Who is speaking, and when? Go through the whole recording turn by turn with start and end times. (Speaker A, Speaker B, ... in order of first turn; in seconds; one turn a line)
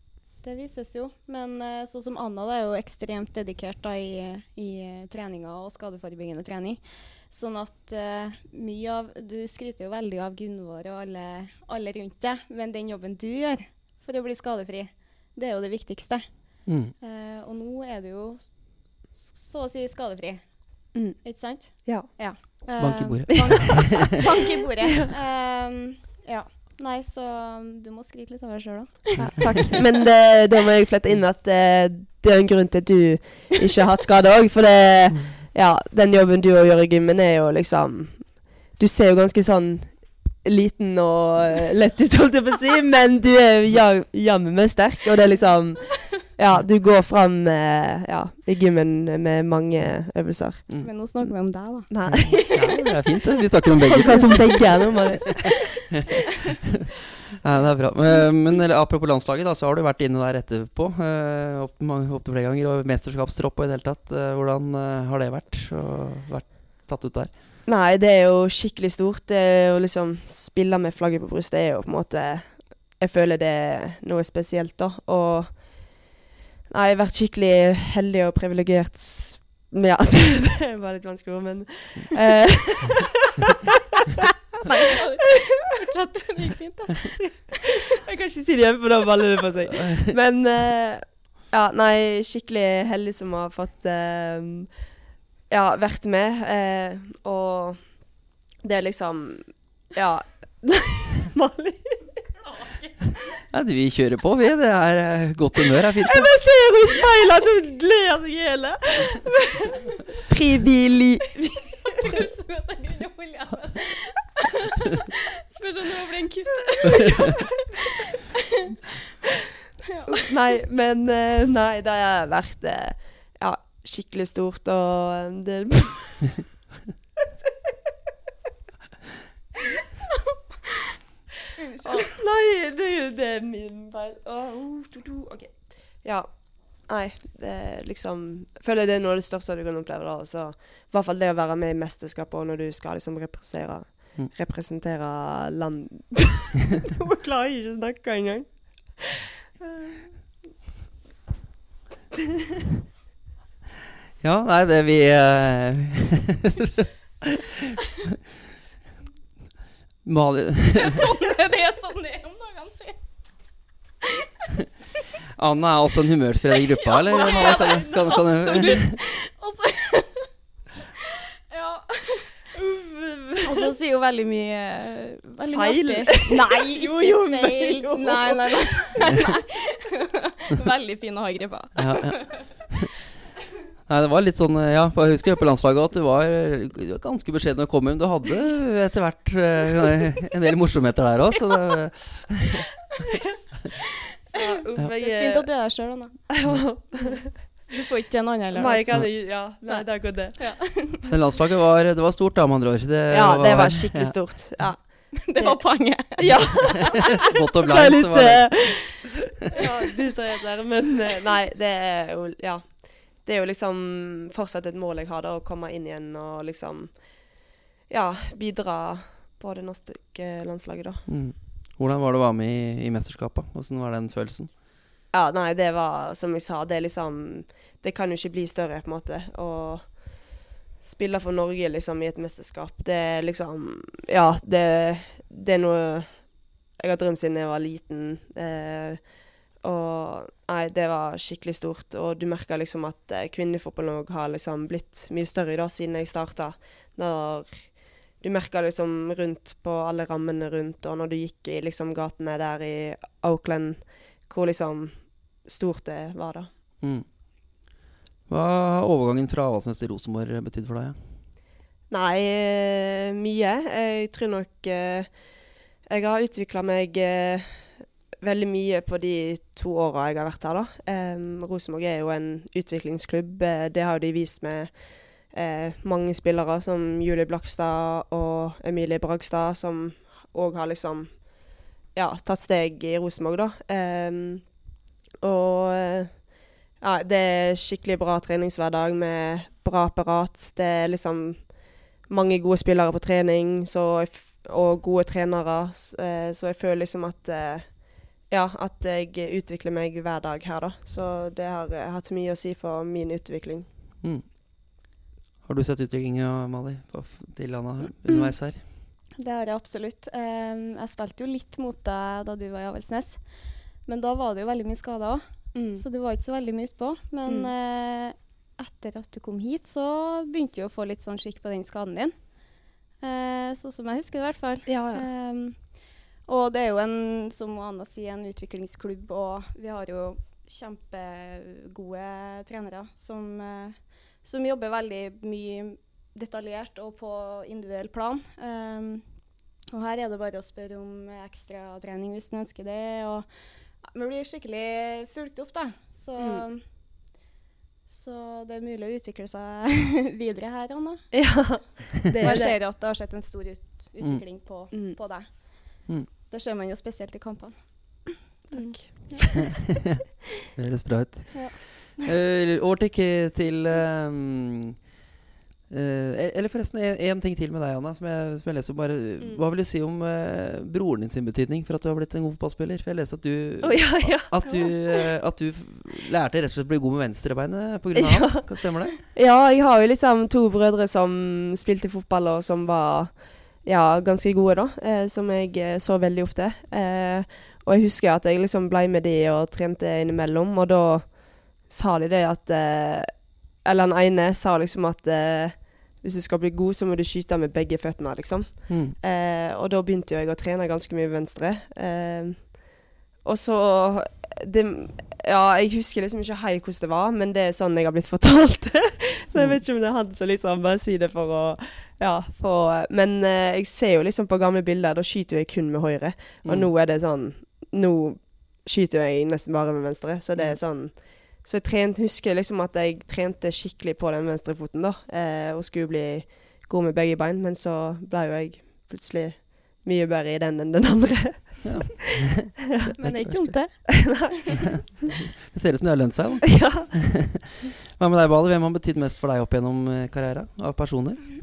Speaker A: 0.4-29.9
Speaker B: 16.6-16.9
Speaker C: 20.9-22.6
Speaker B: 22.8-24.0
Speaker B: 29.2-29.6
Speaker C: 29.4-50.9
Speaker A: 50.8-52.8
Speaker C: 51.9-52.7
Speaker B: 52.0-54.8
Speaker C: 53.9-55.6
Speaker B: 55.7-56.3
Speaker B: 57.4-67.3
Speaker C: 67.7-76.1
Speaker C: 76.7-83.1
Speaker A: 84.7-87.7
Speaker C: 87.9-94.9
Speaker C: 95.5-102.3
Speaker B: 103.5-106.4
Speaker C: 106.0-109.4
Speaker C: 110.2-111.9
Speaker A: 112.0-117.5
Speaker A: 120.0-120.2
Speaker C: 120.1-126.4
Speaker A: 131.6-132.1
Speaker C: 131.8-150.3
Speaker B: 154.2-157.0
Speaker B: 160.0-161.0
Speaker A: 160.8-163.6
Speaker B: 165.4-168.9
Speaker A: 166.8-170.3
Speaker A: 171.5-172.3
Speaker C: 172.5-173.7
Speaker A: 173.4-182.3
Speaker C: 175.5-178.9
Speaker B: 181.8-182.9
Speaker B: 183.8-192.7
Speaker C: 194.3-195.7
Speaker A: 194.9-201.0
Speaker C: 196.3-197.3
Speaker C: 198.5-200.6
Speaker B: 201.1-204.2
Speaker C: 203.1-208.9
Speaker A: 205.2-207.0
Speaker B: 207.2-209.0
Speaker C: 209.5-221.1
Speaker B: 221.1-224.5
Speaker C: 225.1-256.5
Speaker B: 256.8-257.1
Speaker B: 258.3-261.0
Speaker C: 261.9-303.7
Speaker B: 305.4-308.7
Speaker A: 309.2-346.6
Speaker C: 315.5-315.8
Speaker C: 317.2-317.5
Speaker C: 324.6-325.1
Speaker C: 346.2-346.4
Speaker A: 347.9-351.2
Speaker C: 351.1-352.6
Speaker A: 352.2-359.5
Speaker B: 354.0-354.2
Speaker C: 354.7-355.0
Speaker C: 358.5-359.2
Speaker B: 360.5-364.9
Speaker B: 365.7-379.0
Speaker C: 373.6-374.8
Speaker C: 377.9-431.8
Speaker B: 398.7-398.9
Speaker B: 409.3-409.6
Speaker B: 416.4-416.7
Speaker B: 431.6-433.8
Speaker A: 433.0-434.4
Speaker C: 434.0-434.9
Speaker B: 434.9-437.4
Speaker C: 436.5-436.9
Speaker B: 437.9-441.3